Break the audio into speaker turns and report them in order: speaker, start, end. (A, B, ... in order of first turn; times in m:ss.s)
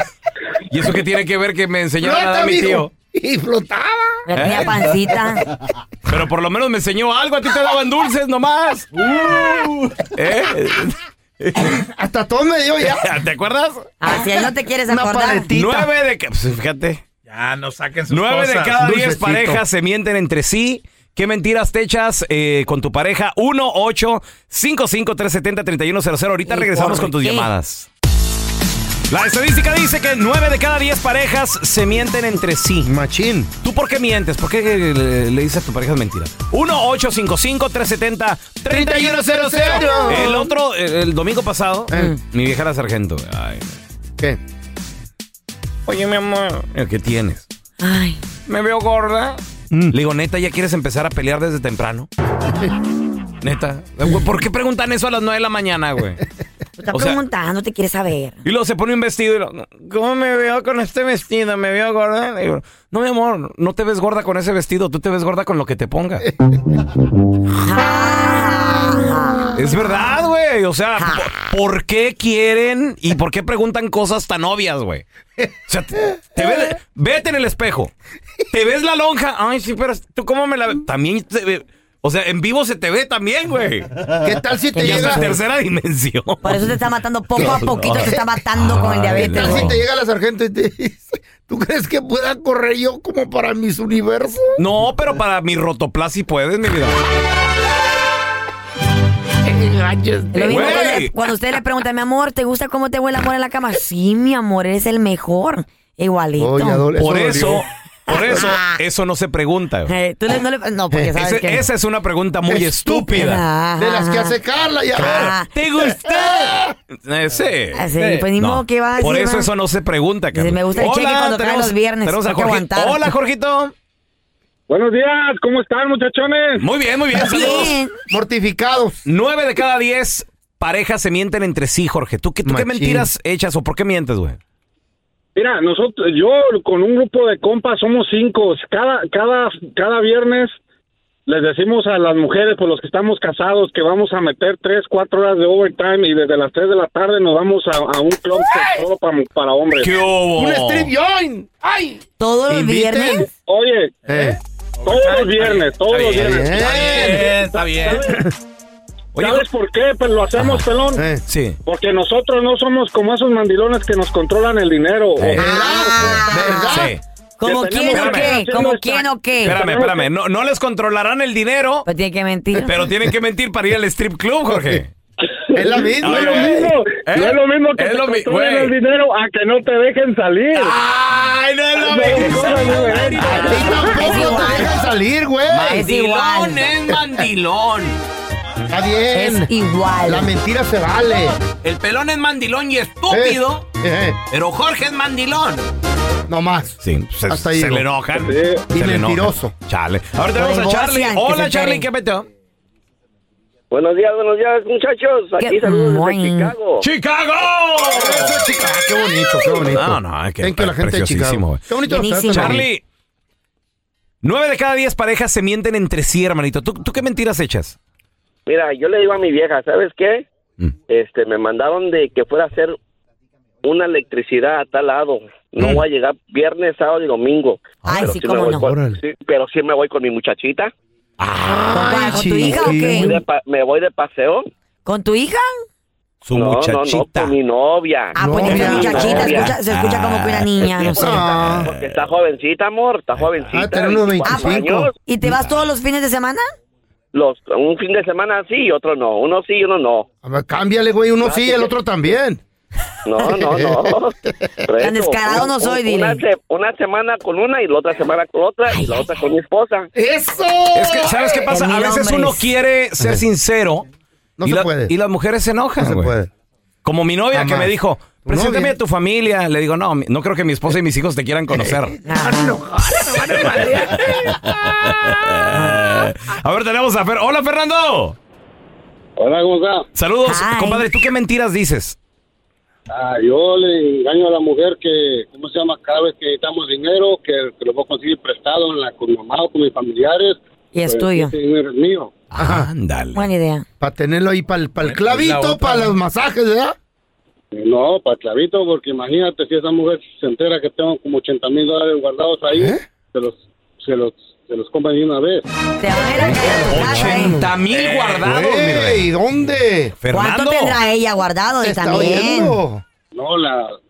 0:00.7-0:02.9 A
0:02.0-0:04.2 B
0:04.3-0:05.4 C
0:04.3-0:04.9 A
0:06.1-0:08.9 A
0:10.1-0:11.8 A
0:11.6-0:13.0 B
0:12.9-0:13.8 A
0:14.0-0:15.5 C
0:14.9-0:15.9 B
0:15.5-0:17.0 A
0:17.3-0:18.8 D
0:18.1-0:27.9 A
0:18.7-0:19.6 B
0:26.4-0:27.5 C
0:29.1-0:32.9 A
0:32.8-0:33.5 B
0:33.6-0:43.8 A
0:38.7-0:40.4 B
0:45.9-0:47.4 A
0:47.8-0:48.2 C
0:48.5-0:52.1 A
0:53.4-0:56.2 A
0:56.8-0:58.4 C
0:56.9-0:57.2 A
0:58.4-1:06.3 A
1:06.3-1:06.6 B
1:07.6-1:10.1 C
1:09.6-1:15.0 A
1:11.0-1:11.3 C
1:15.7-1:17.9 A
1:18.5-1:24.1 A
1:24.2-1:25.3 B
1:24.8-1:26.8 A
1:24.8-1:25.2 C
1:26.4-1:29.7 C
1:27.4-1:29.8 A
1:27.4-1:28.2 B
1:29.1-1:34.4 B
1:34.6-1:37.0 A
1:39.4-1:41.0 B
1:40.3-1:46.8 C
1:40.4-1:41.1 A
1:46.4-1:47.6 B
1:47.0-1:49.9 A
1:48.1-1:48.8 C
1:49.9-1:51.6 C
1:51.2-1:53.4 A
1:52.5-1:55.3 B
1:53.2-1:54.4 C
1:55.0-1:55.5 C
1:55.0-2:03.7 A
1:56.1-1:56.7 B
1:57.7-1:59.5 C
2:00.3-2:03.1 C
2:04.7-2:06.6 E
2:06.6-2:07.8 A
2:07.2-2:07.9 C
2:07.4-2:09.0 B
2:09.1-2:14.4 A
2:12.4-2:13.1 B
2:15.4-2:20.5 E
2:21.3-2:29.9 E
2:29.7-2:30.9 A
2:30.4-2:33.3 B
2:32.2-2:33.3 C
2:33.4-2:34.0 E
2:34.1-2:34.4 B
2:34.8-2:38.2 E
2:35.3-2:38.0 D
2:36.2-2:37.4 B
2:39.2-2:39.5 A
2:39.2-2:41.0 E
2:40.4-2:40.7 A
2:41.0-2:41.2 B
2:41.2-2:41.6 A
2:41.7-2:45.4 E
2:45.2-2:47.0 A
2:45.3-2:46.9 B
2:45.4-2:49.6 C
2:47.4-2:50.1 E
2:47.8-2:48.4 A
2:49.4-2:51.9 A
2:51.8-2:52.7 C
2:52.6-2:54.9 A
2:54.5-2:54.8 B
2:55.6-2:56.7 B
2:55.7-3:00.8 E
2:56.0-2:58.7 A
3:00.6-3:04.6 A
3:01.7-3:03.7 E
3:03.2-3:05.8 B
3:03.8-3:04.7 C
3:05.5-3:08.0 A
3:05.6-3:06.7 C
3:08.7-3:09.5 B
3:09.1-3:10.3 C
3:10.1-3:11.3 B
3:11.6-3:13.7 A
3:13.1-3:14.2 B
3:14.3-3:15.7 A
3:16.3-3:16.8 B
3:16.8-3:22.3 A
3:17.3-3:17.9 B
3:18.3-3:18.6 E
3:18.7-3:19.5 B
3:20.3-3:21.9 C
3:23.7-3:26.8 F
3:25.4-3:26.5 C
3:26.8-3:28.5 A
3:27.8-3:32.6 B
3:29.4-3:31.7 A
3:31.8-3:32.6 C
3:32.3-3:32.8 A
3:34.2-3:37.8 A
3:38.4-3:40.3 F
3:40.9-3:42.8 F
3:43.6-3:50.7 F
3:47.8-3:48.7 C
3:47.9-3:48.2 A
3:48.5-3:49.0 B
3:51.2-3:52.4 A
3:51.4-3:53.2 B
3:51.7-3:53.2 C
3:53.0-3:54.5 F
3:54.8-3:55.5 C
3:56.2-3:57.3 A
3:56.3-3:59.5 F
3:58.2-4:01.3 C
3:58.2-3:59.5 B
3:58.8-4:02.1 A
4:00.9-4:01.7 B
4:01.7-4:04.9 F
4:03.5-4:04.9 B
4:04.3-4:06.4 C
4:07.1-4:10.1 F
4:10.2-4:12.4 B
4:11.2-4:11.7 F
4:13.0-4:14.2 F
4:13.3-4:14.6 B
4:14.7-4:19.9 F
4:14.8-4:16.2 C
4:18.7-4:19.2 C
4:19.9-4:21.4 B
4:20.7-4:23.8 A
4:21.5-4:22.4 C
4:24.4-4:24.9 B
4:24.4-4:26.1 A
4:25.8-4:26.3 B
4:26.8-4:32.0 A
4:27.3-4:27.7 B
4:28.2-4:28.7 B
4:31.5-4:34.2 B
4:32.0-4:32.6 C
4:33.4-4:33.8 A
4:34.8-4:38.2 A
4:35.5-4:35.9 C
4:39.2-4:39.9 G
4:40.0-4:42.0 A
4:40.3-4:40.9 C
4:42.9-4:52.1 G
4:50.7-4:51.3 C
4:52.3-4:53.3 A
4:52.4-4:52.7 B
4:53.2-4:53.6 C
4:53.8-4:56.7 B
4:55.2-4:55.6 A
4:57.5-5:05.4 G
5:02.5-5:02.8 B
5:05.8-5:07.4 C
5:06.2-5:07.5 B
5:06.7-5:09.1 A
5:08.2-5:09.9 B
5:10.0-5:10.8 A
5:10.1-5:12.6 C
5:11.6-5:12.8 B
5:13.2-5:13.8 G